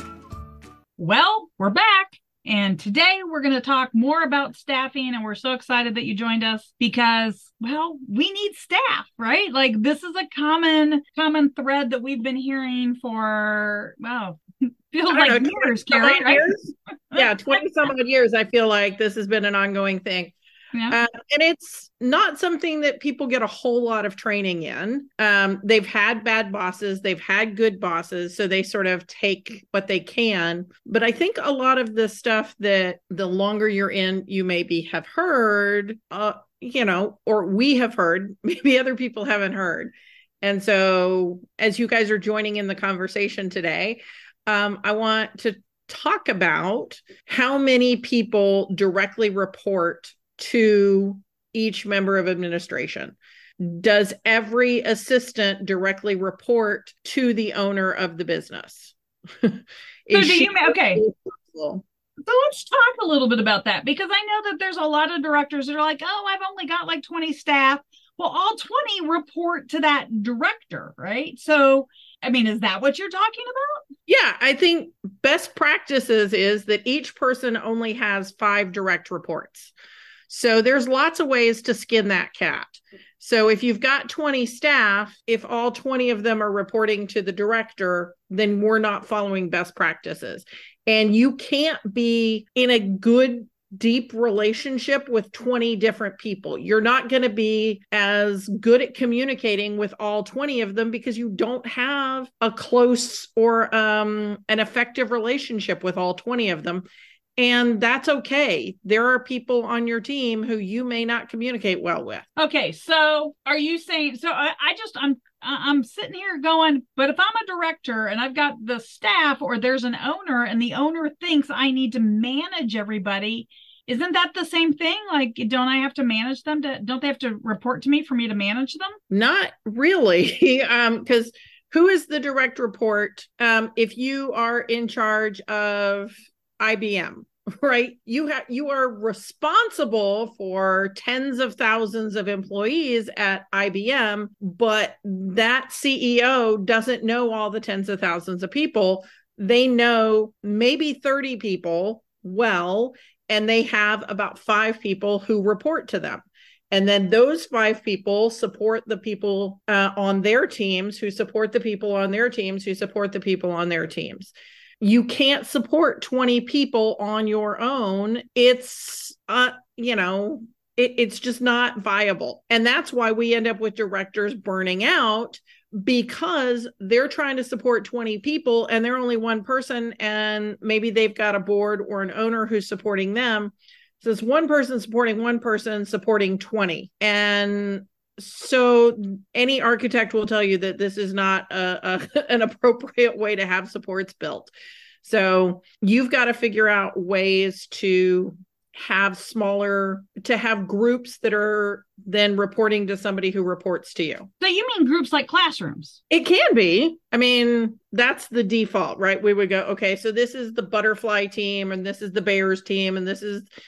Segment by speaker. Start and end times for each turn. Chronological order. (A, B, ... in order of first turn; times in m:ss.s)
0:01.0-0:16.5 A
0:15.1-0:20.3 B
0:17.1-0:17.6 A
0:20.9-1:01.8 B
1:00.1-1:01.0 A
1:02.2-1:13.8 A
1:14.1-1:19.7 B
1:20.3-1:46.9 B
1:47.4-1:52.2 B
1:52.4-2:09.0 A
2:09.1-3:14.5 B
3:15.0-3:24.3 B
3:24.4-3:26.0 A
3:26.1-3:33.5 B